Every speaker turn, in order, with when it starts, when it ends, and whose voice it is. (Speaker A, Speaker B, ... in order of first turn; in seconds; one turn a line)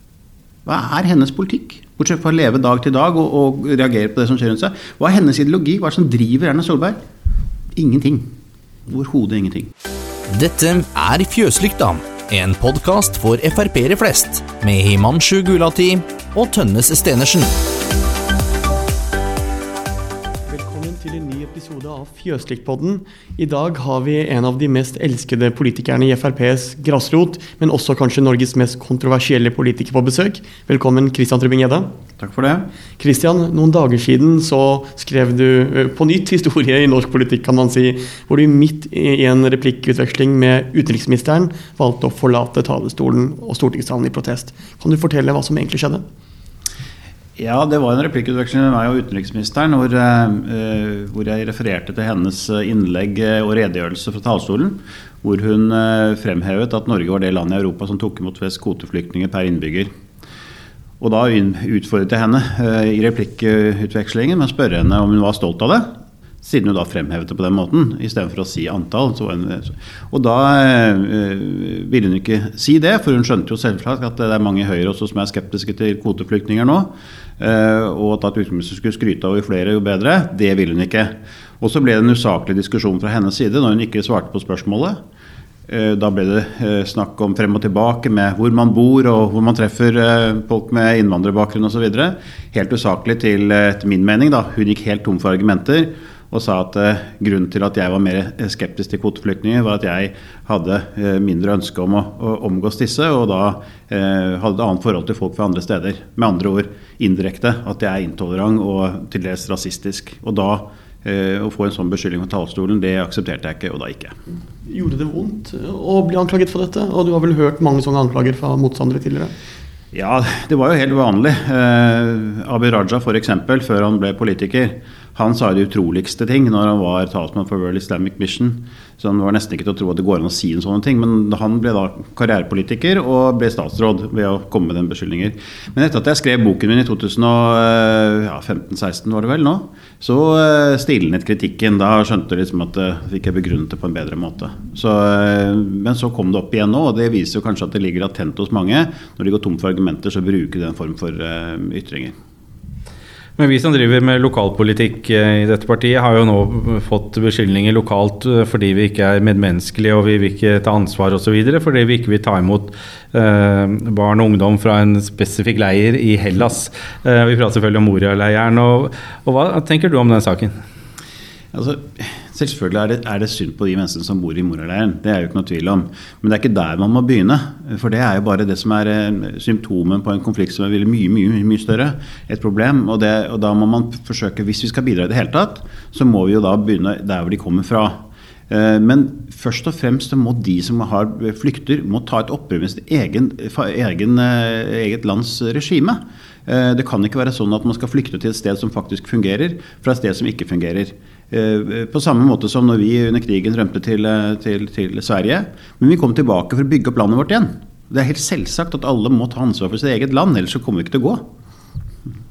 Speaker A: 0.7-7.0
Speaker A: 7.8-8.3
Speaker A: 8.9-9.7
Speaker B: 10.3-17.5
Speaker C: 20.5-31.9
Speaker A: 32.2-32.7
Speaker C: 33.0-46.0
Speaker A: 47.4-59.9
Speaker A: 61.0-65.9
Speaker A: 66.4-85.0
Speaker A: 85.7-114.2
Speaker C: 114.7-119.3
Speaker A: 119.9-152.1
Speaker D: 153.4-170.5
Speaker A: 171.5-188.0
Speaker A: 188.5-211.2